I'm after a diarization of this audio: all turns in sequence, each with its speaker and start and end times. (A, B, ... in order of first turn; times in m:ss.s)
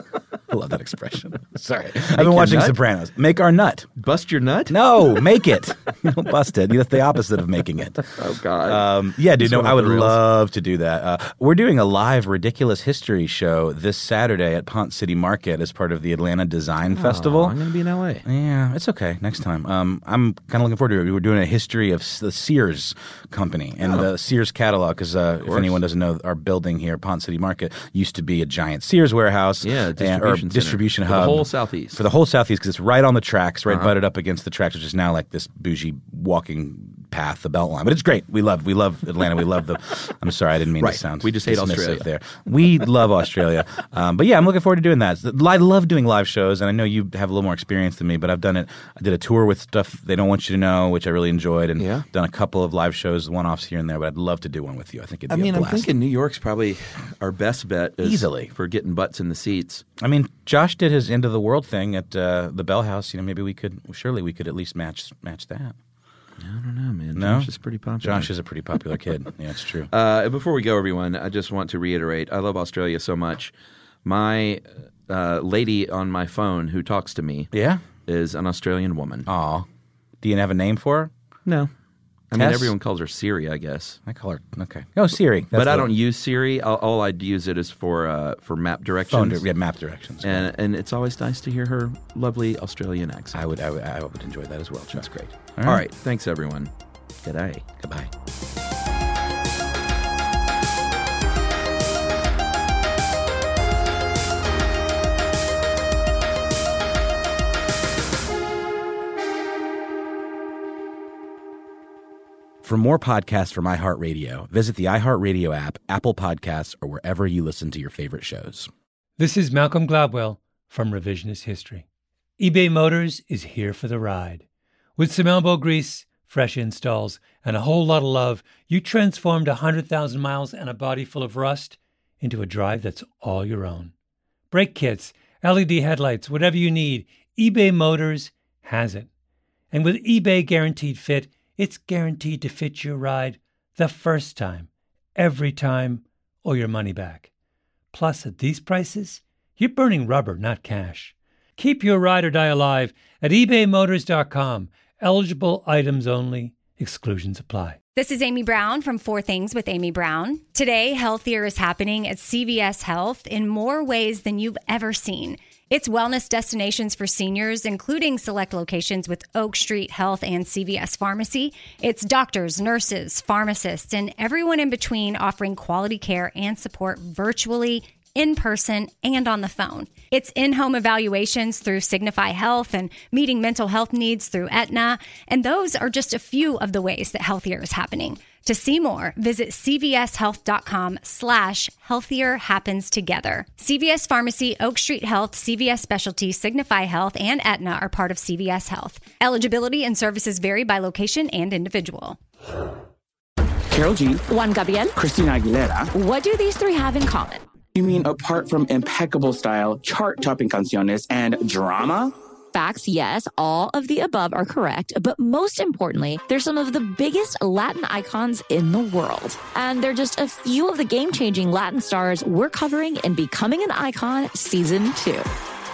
0:00.5-0:03.9 A
0:02.1-0:02.8 B
0:04.0-0:05.2 B
0:04.7-0:17.6 A
0:08.2-0:10.2 B
0:16.9-0:18.2 B
0:18.2-0:55.9 A
0:25.4-0:25.8 B
0:29.6-0:32.0 B
0:33.7-0:33.9 B
0:40.8-0:42.1 B
0:51.8-0:52.0 B
0:55.3-0:59.8 B
0:58.0-0:58.5 A
1:00.0-1:05.7 A
1:06.4-1:08.3 B
1:07.1-1:07.5 A
1:08.0-1:09.9 A
1:09.9-1:13.5 B
1:14.0-1:17.5 B
1:17.5-1:17.8 A
1:18.1-1:19.3 B
1:19.3-1:19.7 A
1:20.2-1:21.1 A
1:21.4-1:21.7 B
1:22.3-1:24.0 B
1:22.3-1:22.7 A
1:24.1-1:25.9 A
1:25.5-1:29.4 B
1:29.1-1:30.5 A
1:30.2-1:33.4 B
1:33.3-1:35.8 A
1:35.0-1:36.7 B
1:37.2-1:37.7 B
1:37.8-1:38.1 A
1:52.6-1:58.7 A
1:59.2-2:01.8 C
2:02.4-2:04.4 C
2:05.0-2:13.9 C
2:14.5-2:19.1 C
2:19.7-2:27.3 C
2:27.9-2:37.8 C
2:37.9-3:22.2 D
3:23.7-3:24.2 E
3:24.3-3:24.9 F
3:25.0-3:25.9 E
3:25.9-3:27.4 F
3:27.8-3:32.1 E
3:32.5-3:45.3 F